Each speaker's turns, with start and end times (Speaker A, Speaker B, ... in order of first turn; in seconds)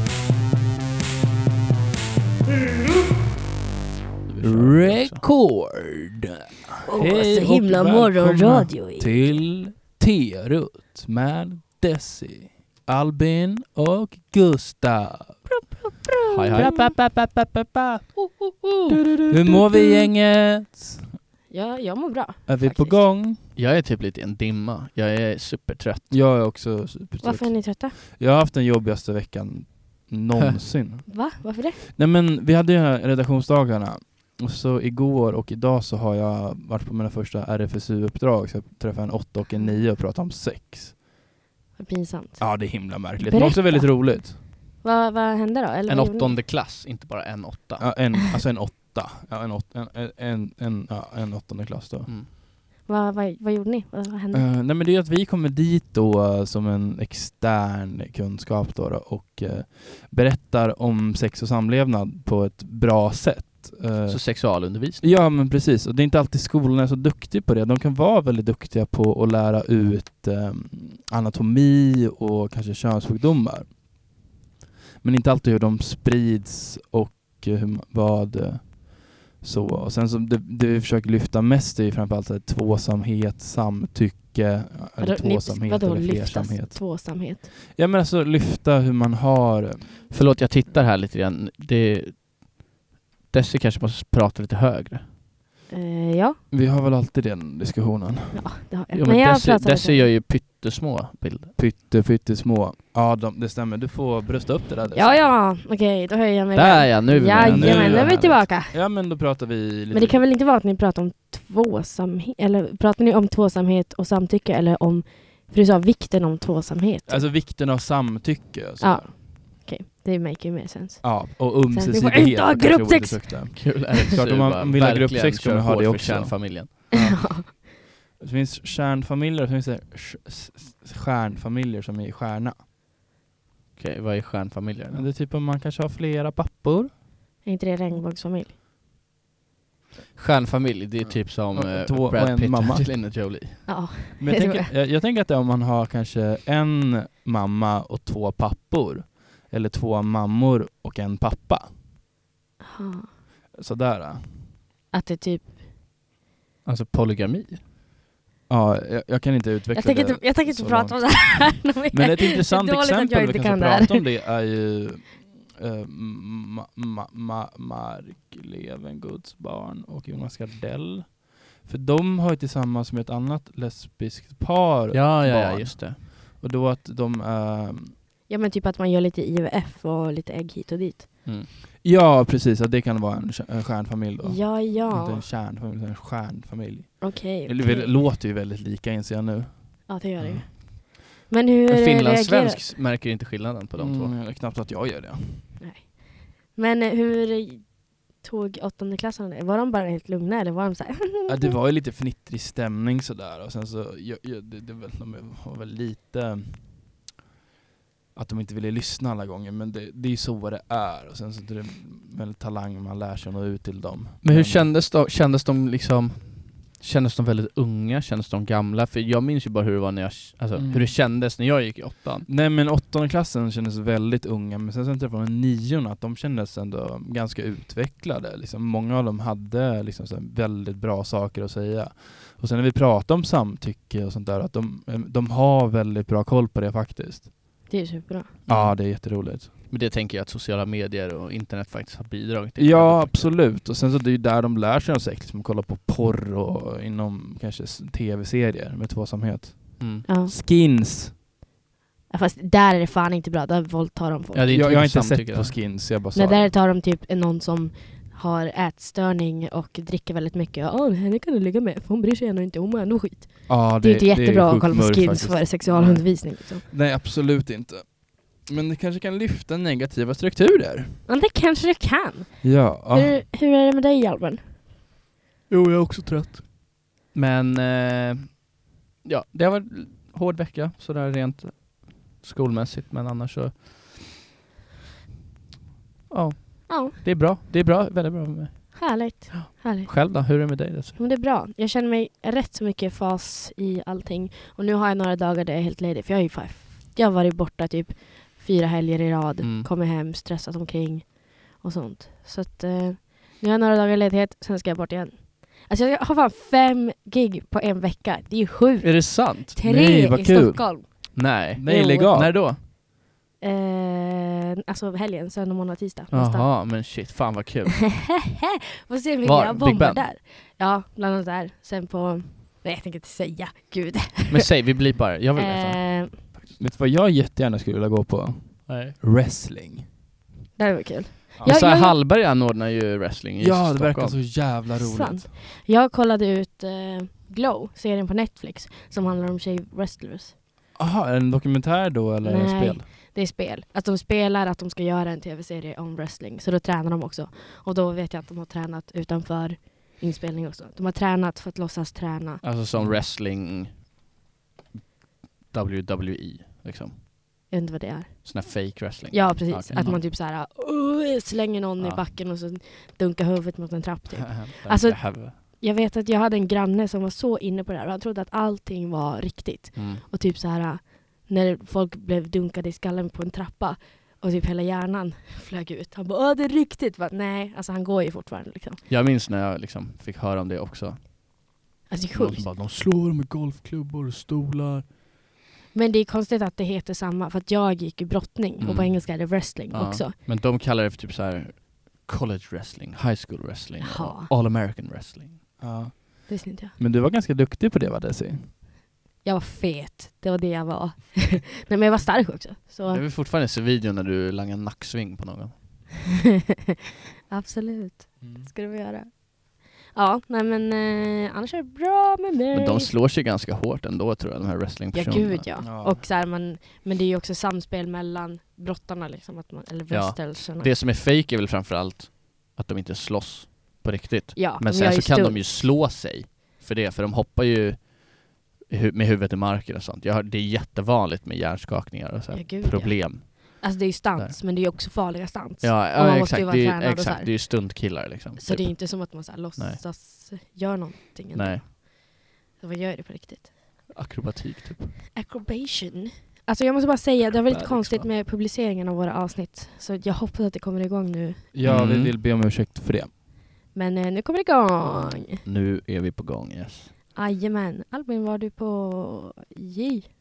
Speaker A: 4.3-5.2, 16.3-17.0, 23.6-26.1, 45.9-48.0, 64.1-65.0, 90.1-92.5, 93.3-95.1, 98.9-101.5, 106.5-108.4, 123.6-126.7, 133.8-135.1, 140.2-143.7, 156.7-157.6, 174.9-176.0, 191.7-194.1, 214.2-222.3, 238.5-243.4, 249.8-250.1, 254.3-255.6, 275.5-276.5, 277.1-283.9, 286.1-291.0, 299.4-299.7, 308.8-309.6, 311.1-312.6, 316.1-318.1, 319.2-320.1, 324.3-326.4, 328.7-328.9, 331.4-334.2, 352.4-353.9, 355.5-357.0, 358.2-360.0, 364.2-365.4, 369.8-370.0, 378.9-381.6, 382.1-384.9, 388.6-395.4, 402.9-405.7, 412.5-415.5, 419.9-434.4, 435.6-439.9, 441.3-441.7, 443.9-445.0, 447.4-448.1, 451.6-452.1, 455.4-456.9
Speaker B: 4.4-15.7, 16.6-18.1, 19.3-21.1, 22.5-23.4, 26.1-41.0, 42.4-44.4, 47.8-52.1, 54.3-73.8, 75.0-90.1, 96.5-98.6, 101.6-105.2, 107.4-110.2, 117.1-119.1, 121.0-127.7, 128.2-132.6, 134.9-136.9, 141.0-143.0, 144.2-151.7, 153.5-154.4, 158.5-178.0, 181.8-190.5, 193.8-195.5, 201.3-206.7, 208.2-214.7, 220.6-220.9, 222.3-237.3, 238.5-239.5, 242.6-251.2, 254.5-256.5, 263.5-271.0, 272.4-273.2, 309.6-312.4, 326.6-329.9, 333.4-335.3, 340.8-342.9, 352.8-353.0, 359.7-360.0, 395.6-398.5, 408.2-408.5, 415.6-416.0, 451.5-453.1
Speaker C: 6.9-9.3, 15.5-16.8, 18.2-19.0, 21.5-23.1, 27.2-27.9, 31.1-31.8, 41.8-46.4, 52.9-54.5, 85.0-87.5, 95.7-96.4, 98.3-100.1, 104.9-108.8, 109.9-117.3, 118.8-123.7, 126.9-127.5, 137.4-138.5, 143.7-144.7, 152.6-153.1, 154.9-155.5, 159.7-164.0, 178.3-181.3, 184.2-185.2, 187.0-188.0, 189.9-192.6, 195.6-201.5, 237.7-238.4, 250.1-250.3, 252.1-254.5, 256.1-266.6, 271.1-274.5, 286.7-286.9, 288.8-311.9, 313.4-316.8, 318.0-324.6, 325.4-326.2, 330.6-332.0, 334.8-340.4, 342.2-352.4, 357.5-378.8, 381.9-382.5, 385.7-390.1, 393.8-394.3, 396.3-396.7, 399.2-403.0, 407.3-412.9, 414.9-420.7, 424.4-425.6, 432.3-437.6, 438.4-443.9, 445.1-451.5, 453.7-455.4, 457.1-460.1